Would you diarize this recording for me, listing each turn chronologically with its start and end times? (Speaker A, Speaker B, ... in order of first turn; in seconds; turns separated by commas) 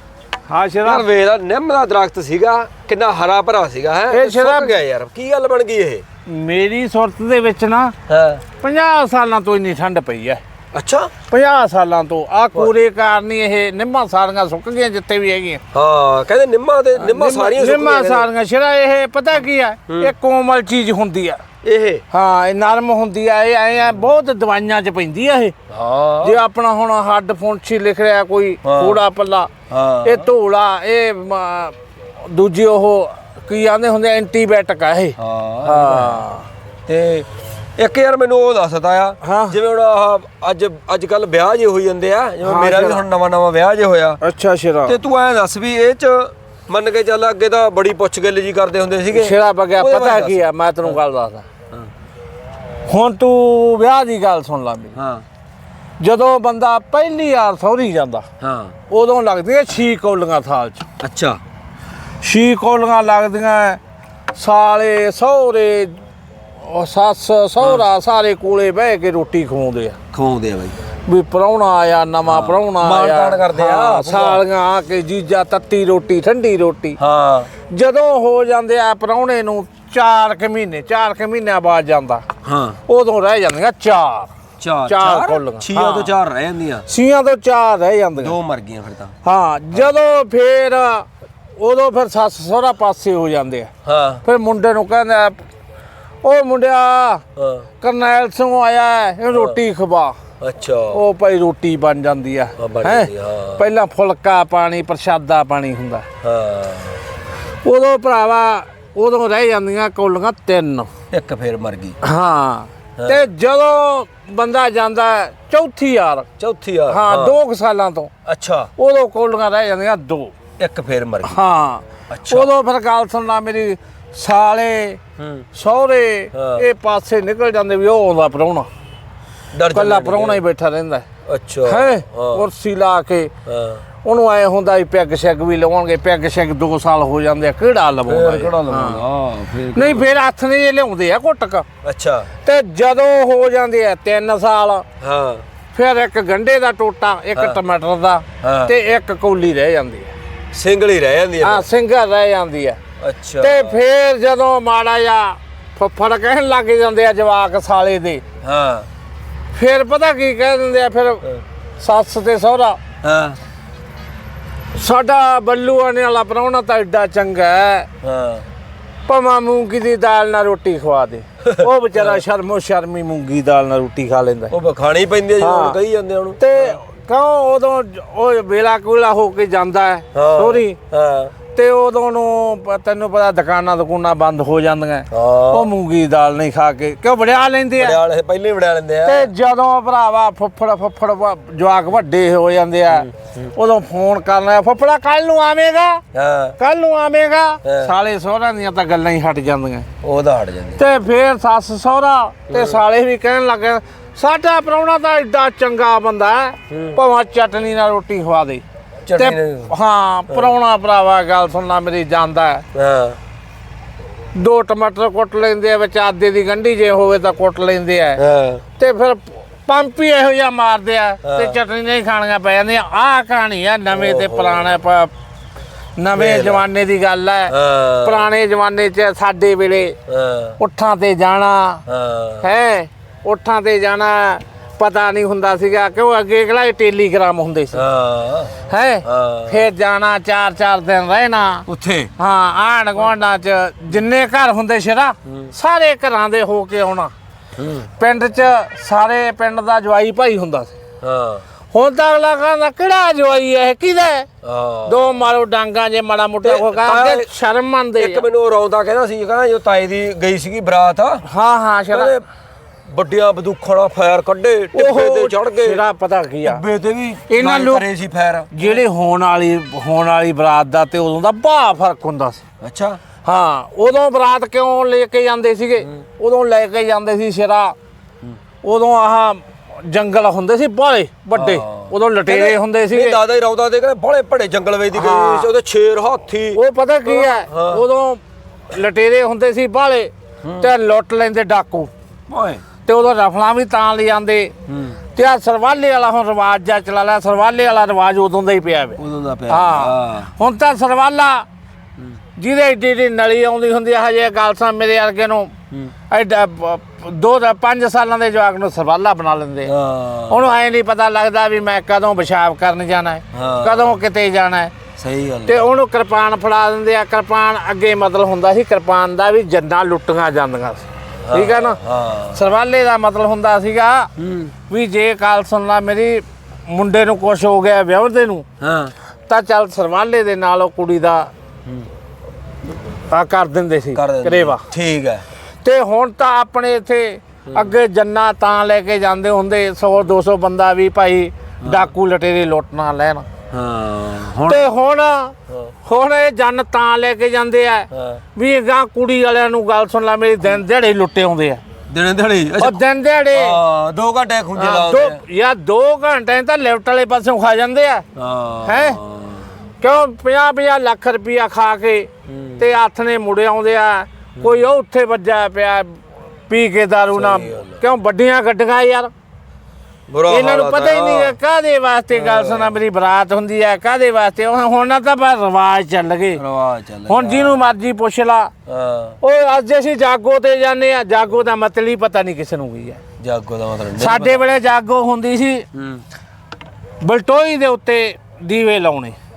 Speaker A: 0.5-1.1, Speaker B: 0.8-6.0, Speaker A: 4.1-4.7, Speaker A: 6.3-8.0, Speaker B: 8.1-8.4, Speaker A: 8.6-10.4, Speaker B: 10.7-11.1, Speaker A: 11.3-15.6, Speaker B: 15.7-18.3, Speaker A: 16.9-21.4, Speaker B: 21.6-22.0, Speaker A: 22.1-25.6, Speaker B: 25.7-26.4, Speaker A: 26.2-29.5, Speaker B: 28.6-29.0, Speaker B: 29.7-30.3, Speaker A: 30.0-36.5, Speaker B: 35.2-36.2, Speaker B: 36.9-37.3, Speaker B: 37.8-44.2, Speaker A: 39.2-39.5, Speaker A: 42.4-43.0, Speaker A: 44.2-45.0, Speaker B: 44.9-51.0, Speaker A: 49.1-51.5, Speaker A: 52.9-55.0, Speaker B: 55.0-55.2, Speaker A: 56.0-58.3, Speaker B: 58.4-58.8, Speaker A: 58.9-60.9, Speaker B: 61.0-61.4, Speaker A: 62.2-63.8, Speaker A: 64.4-66.0, Speaker A: 66.6-70.0, Speaker B: 67.6-67.8, Speaker B: 70.1-70.8, Speaker A: 71.1-77.0, Speaker B: 72.2-74.4, Speaker B: 77.0-77.5, Speaker A: 77.7-82.2, Speaker B: 82.4-82.8, Speaker A: 82.9-84.3, Speaker B: 84.6-86.9, Speaker A: 84.9-86.1, Speaker A: 86.9-88.4, Speaker B: 88.2-89.2, Speaker A: 89.2-91.1, Speaker A: 91.6-93.7, Speaker B: 93.8-94.2, Speaker A: 94.2-95.4, Speaker A: 96.2-97.2, Speaker B: 97.4-97.7, Speaker A: 97.8-100.2, Speaker B: 99.3-99.6, Speaker B: 100.4-101.0, Speaker A: 100.9-106.1, Speaker B: 102.6-103.6, Speaker B: 106.2-107.0, Speaker A: 107.6-110.9, Speaker B: 111.1-112.0, Speaker A: 112.0-116.3, Speaker B: 116.4-117.4, Speaker A: 116.9-118.1, Speaker B: 118.2-118.7, Speaker A: 118.8-120.3, Speaker B: 120.6-121.4, Speaker A: 121.2-125.0, Speaker B: 122.1-122.5, Speaker B: 125.2-125.4, Speaker A: 125.5-128.7, Speaker B: 126.3-126.7, Speaker B: 129.5-130.4, Speaker A: 129.7-131.1, Speaker B: 131.2-132.4, Speaker A: 131.7-133.3, Speaker B: 133.4-133.8, Speaker A: 134.0-139.0, Speaker B: 138.1-140.1, Speaker A: 139.7-141.7, Speaker B: 141.8-142.3, Speaker A: 142.4-144.8, Speaker B: 145.0-145.4, Speaker A: 145.7-150.1, Speaker B: 148.4-148.7, Speaker B: 150.5-151.7, Speaker A: 151.4-152.8, Speaker B: 153.0-153.8, Speaker A: 153.4-158.2, Speaker B: 158.4-158.9, Speaker A: 159.5-161.2, Speaker A: 161.8-162.8, Speaker B: 163.0-163.4, Speaker A: 164.8-167.9, Speaker B: 168.0-168.4, Speaker A: 169.1-174.5, Speaker B: 171.4-172.2, Speaker B: 174.5-176.8, Speaker A: 175.4-175.8, Speaker A: 176.4-180.8, Speaker B: 180.1-181.3, Speaker A: 181.5-188.0, Speaker B: 185.1-185.7, Speaker B: 187.8-189.3, Speaker A: 189.1-196.0, Speaker B: 192.9-193.3, Speaker B: 196.1-196.6, Speaker A: 196.6-199.9, Speaker B: 197.6-197.9, Speaker B: 200.0-200.8, Speaker A: 200.8-208.6, Speaker B: 202.5-202.8, Speaker B: 206.7-207.0, Speaker B: 209.1-209.7, Speaker A: 209.2-212.7, Speaker B: 210.3-210.5, Speaker B: 212.7-213.2, Speaker A: 214.3-218.2, Speaker B: 218.2-218.6, Speaker A: 218.8-225.1, Speaker B: 221.2-221.6, Speaker B: 223.9-224.8, Speaker A: 226.0-230.0, Speaker B: 226.1-226.6, Speaker B: 227.5-228.3, Speaker B: 230.1-230.6, Speaker A: 230.6-231.8, Speaker B: 231.9-232.5, Speaker A: 232.4-237.8, Speaker B: 237.7-238.5, Speaker A: 238.7-241.7, Speaker B: 239.0-239.6, Speaker B: 241.7-242.1, Speaker A: 242.2-247.1, Speaker B: 247.6-247.9, Speaker A: 248.0-250.8, Speaker B: 251.0-251.4, Speaker A: 251.7-254.3, Speaker B: 254.4-255.2, Speaker A: 254.9-258.2, Speaker B: 256.4-257.3, Speaker B: 258.0-261.2, Speaker A: 261.2-262.1, Speaker B: 261.9-262.2, Speaker B: 262.9-265.8, Speaker A: 264.7-266.6, Speaker B: 266.4-268.8, Speaker A: 267.3-267.9, Speaker A: 268.5-272.4, Speaker B: 272.6-273.0, Speaker A: 273.2-277.8, Speaker A: 278.6-283.2, Speaker B: 281.3-287.8, Speaker A: 284.9-285.5, Speaker A: 286.6-291.9, Speaker B: 290.4-290.7, Speaker B: 292.3-292.6, Speaker A: 292.9-294.5, Speaker B: 294.7-295.0, Speaker A: 295.1-301.4, Speaker B: 299.0-300.3, Speaker A: 302.4-305.5, Speaker A: 306.1-309.7, Speaker B: 309.6-310.4, Speaker A: 310.3-314.7, Speaker B: 313.3-314.0, Speaker B: 315.0-315.7, Speaker A: 315.5-321.8, Speaker B: 321.2-322.4, Speaker A: 322.3-324.1, Speaker B: 324.2-324.5, Speaker A: 324.7-328.4, Speaker B: 328.6-328.9, Speaker A: 329.3-331.3, Speaker A: 333.1-334.6, Speaker B: 333.9-335.2, Speaker A: 335.6-343.3, Speaker B: 337.5-337.8, Speaker B: 341.6-341.9, Speaker B: 343.5-344.7, Speaker A: 344.4-345.3, Speaker B: 345.5-345.7, Speaker A: 345.9-351.6, Speaker B: 347.9-348.2, Speaker B: 351.9-352.8, Speaker A: 352.6-353.6, Speaker B: 353.3-355.2, Speaker A: 354.6-358.1, Speaker B: 358.1-359.5, Speaker A: 358.6-359.0, Speaker A: 359.8-369.1, Speaker B: 362.3-362.6, Speaker B: 367.1-367.8, Speaker B: 370.1-371.4, Speaker A: 370.3-376.4, Speaker B: 372.1-372.8, Speaker B: 376.4-377.6, Speaker A: 377.1-378.5, Speaker B: 378.7-379.2, Speaker A: 379.2-383.0, Speaker B: 383.2-384.4, Speaker A: 384.0-385.7, Speaker B: 385.7-386.0, Speaker A: 387.0-389.2